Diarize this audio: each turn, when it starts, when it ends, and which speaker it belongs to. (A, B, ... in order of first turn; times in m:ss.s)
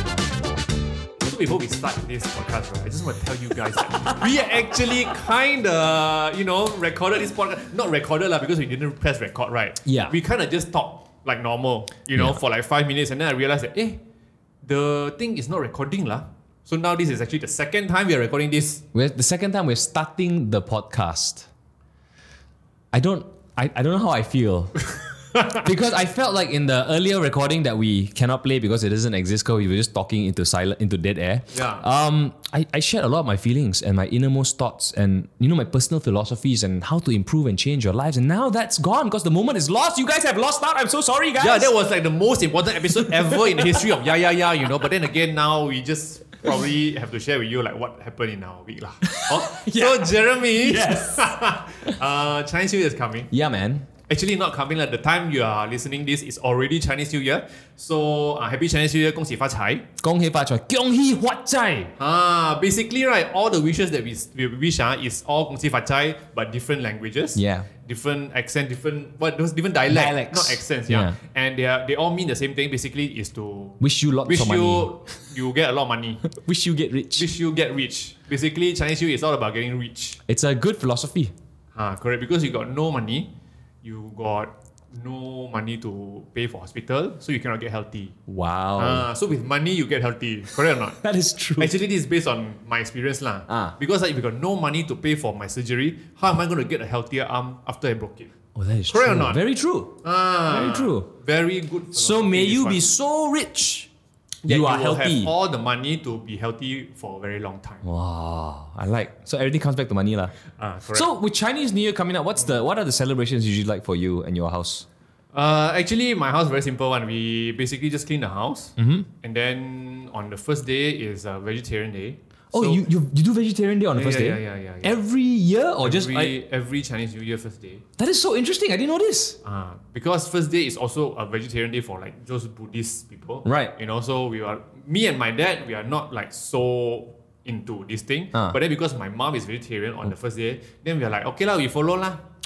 0:01.2-0:14.0 A
0:09.8-0:10.1 B
0:14.6-0:18.8 A
0:18.9-0:21.5 B
0:22.9-0:24.9 B
0:25.5-0:41.7 B
0:31.5-0:31.8 A
0:41.4-0:53.3 A
0:42.9-0:43.8 B
0:49.0-0:51.3 B
0:53.3-0:53.9 B
0:54.1-0:59.8 A
1:00.0-1:01.9 B
1:02.0-1:16.2 A
1:07.4-1:07.7 B
1:09.9-1:11.1 B
1:13.8-1:14.9 B
1:16.3-1:17.3 B
1:17.2-1:20.2 A
1:20.3-1:21.3 B
1:21.7-1:23.3 A
1:23.8-1:28.2 A
1:28.3-1:29.1 B
1:28.8-1:31.0 A
1:30.9-1:31.7 B
1:31.6-1:38.3 A
1:33.5-1:33.8 B
1:38.5-1:41.1 B
1:38.9-1:39.4 A
1:40.0-1:42.8 A
1:41.9-1:43.9 B
1:44.4-1:47.8 A
1:44.4-1:45.3 B
1:47.8-1:50.4 B
1:50.5-1:51.1 A
1:50.9-1:54.8 B
1:55.3-2:02.8 A
1:58.8-1:59.1 B
2:02.5-2:06.4 B
2:03.9-2:05.0 A
2:05.8-2:07.8 A
2:08.0-2:09.4 B
2:09.4-2:22.2 A
2:13.4-2:13.7 B